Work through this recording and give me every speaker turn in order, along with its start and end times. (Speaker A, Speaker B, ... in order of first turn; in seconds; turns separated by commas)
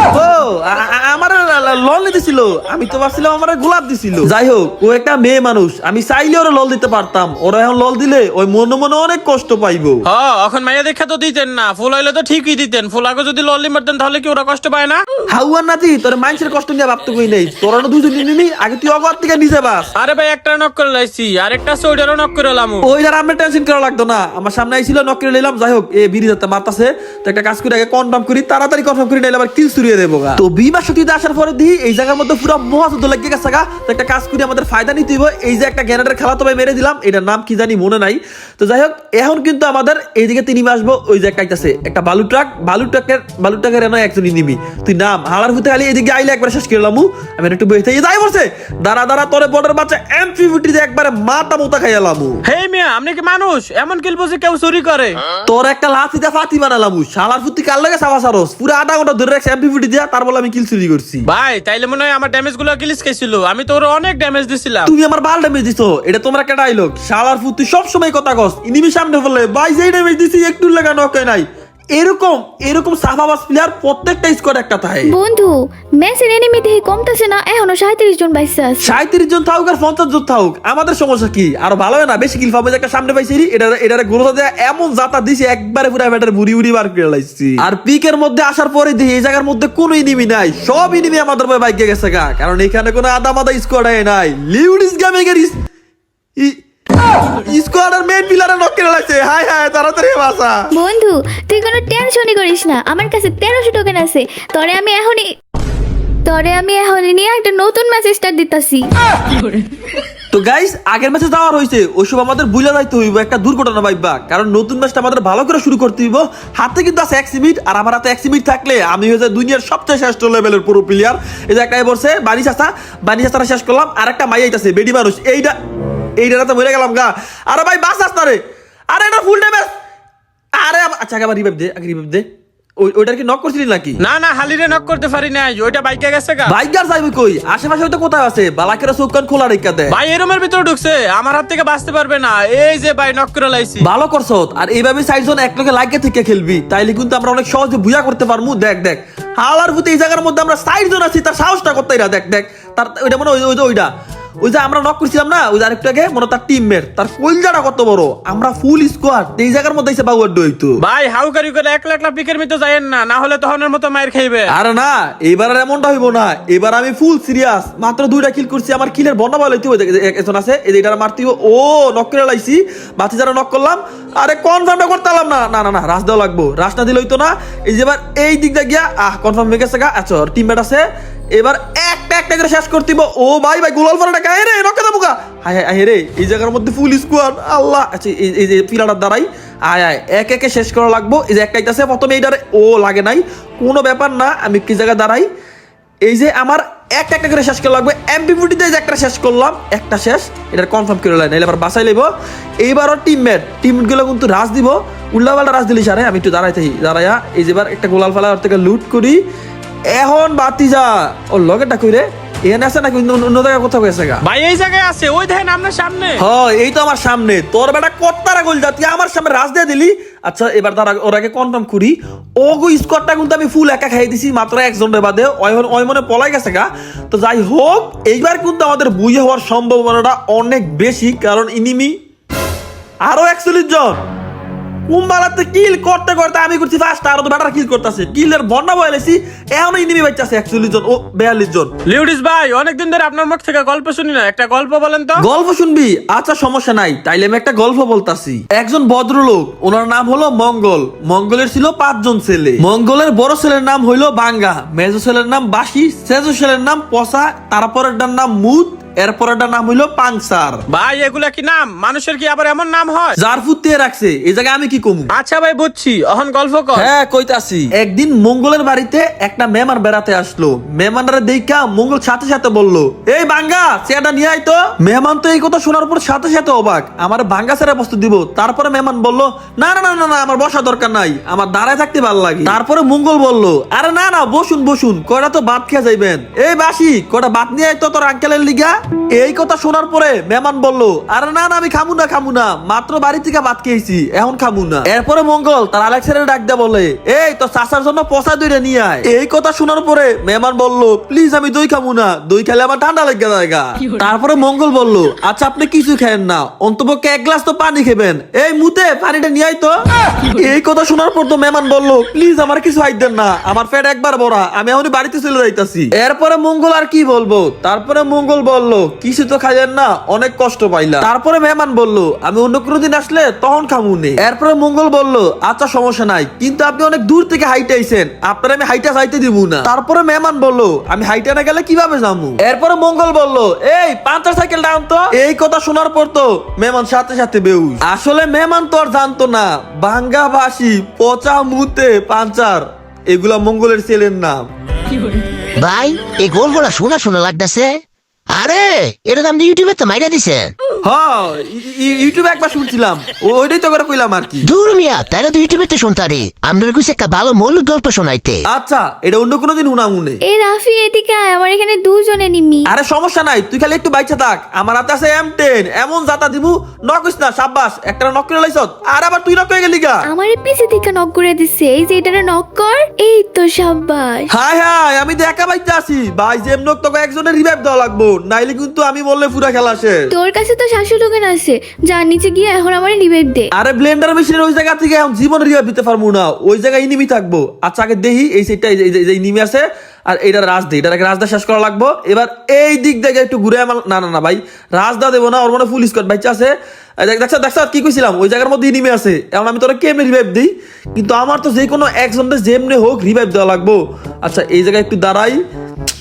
Speaker A: 0.1-10.1, Speaker B: 10.1-15.0, Speaker A: 15.3-19.9, Speaker B: 20.0-22.9, Speaker A: 22.8-52.4, Speaker B: 52.5-55.2, Speaker A: 55.5-61.3, Speaker B: 61.3-64.9, Speaker A: 64.9-75.2, Speaker C: 75.2-79.0, Speaker A: 78.8-95.6, Speaker A: 97.4-100.6, Speaker C: 100.8-105.3, Speaker C: 106.2-108.9, Speaker A: 110.3-125.6, Speaker A: 126.2-128.4, Speaker A: 128.9-129.7, Speaker A: 130.6-132.3, Speaker A: 132.8-134.0, Speaker B: 134.0-136.6, Speaker A: 136.5-140.0, Speaker B: 139.9-143.9, Speaker A: 143.8-153.9, Speaker A: 154.4-160.8, Speaker B: 160.8-164.5, Speaker A: 164.5-180.8, Speaker A: 181.4-195.3, Speaker A: 196.1-209.2, Speaker A: 209.9-214.2, Speaker B: 214.2-216.2, Speaker A: 216.2-231.9, Speaker A: 233.1-234.0, Speaker A: 234.9-241.7, Speaker B: 241.9-245.2, Speaker A: 245.2-260.6, Speaker B: 260.7-263.2, Speaker A: 263.2-265.1, Speaker B: 265.1-266.9, Speaker A: 266.8-309.8, Speaker A: 310.3-344.5, Speaker D: 345.6-347.8, Speaker D: 348.3-350.5, Speaker A: 350.8-354.5, Speaker D: 354.4-358.4, Speaker A: 358.5-360.2, Speaker C: 360.3-362.7, Speaker A: 362.7-370.1, Speaker C: 370.1-374.3, Speaker A: 374.3-380.1, Speaker C: 380.1-383.5, Speaker A: 383.6-405.4